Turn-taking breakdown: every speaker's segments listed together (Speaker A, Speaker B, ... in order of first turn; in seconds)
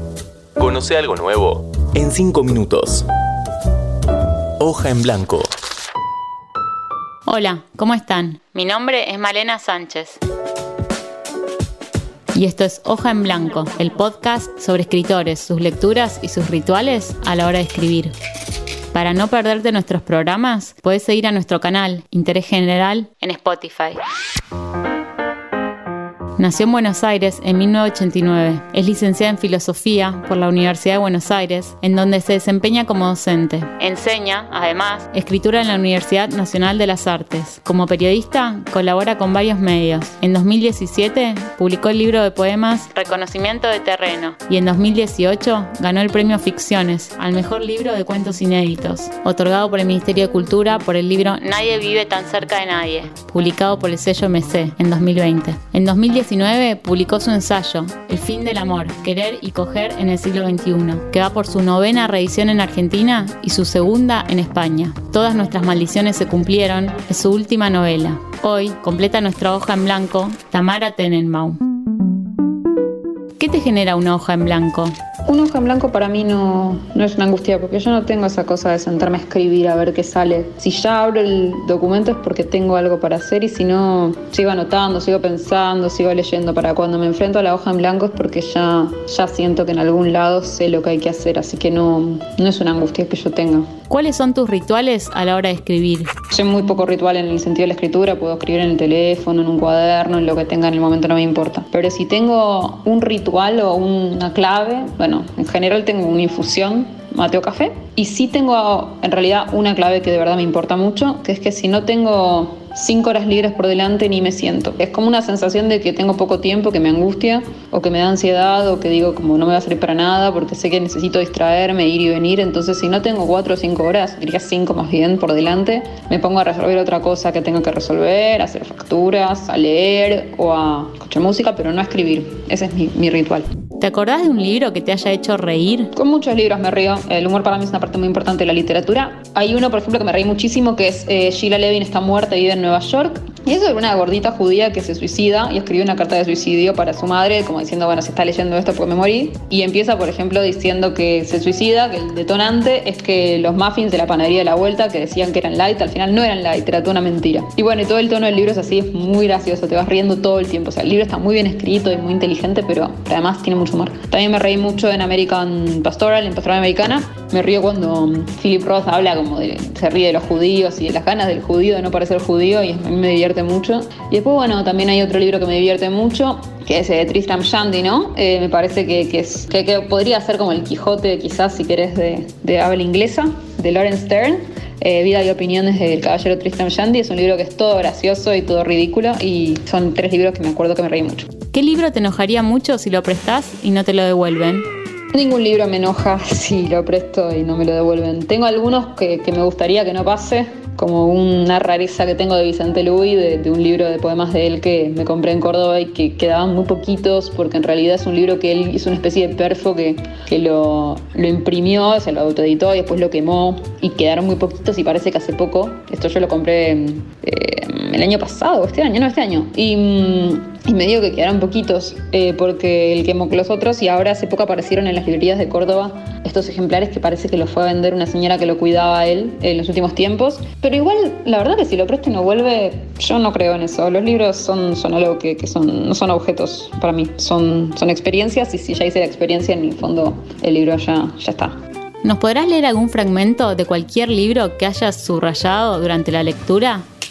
Speaker A: 0.6-3.0, 4.6-5.5
Speaker B: 7.2-10.2, 12.3-18.1, 18.9-24.0, 26.4-71.6, 73.4-74.9, 93.9-96.1, 133.8-135.9, 191.5-194.7, 242.0-246.8
Speaker C: 75.2-93.7, 96.3-133.5, 135.9-191.3, 195.1-241.5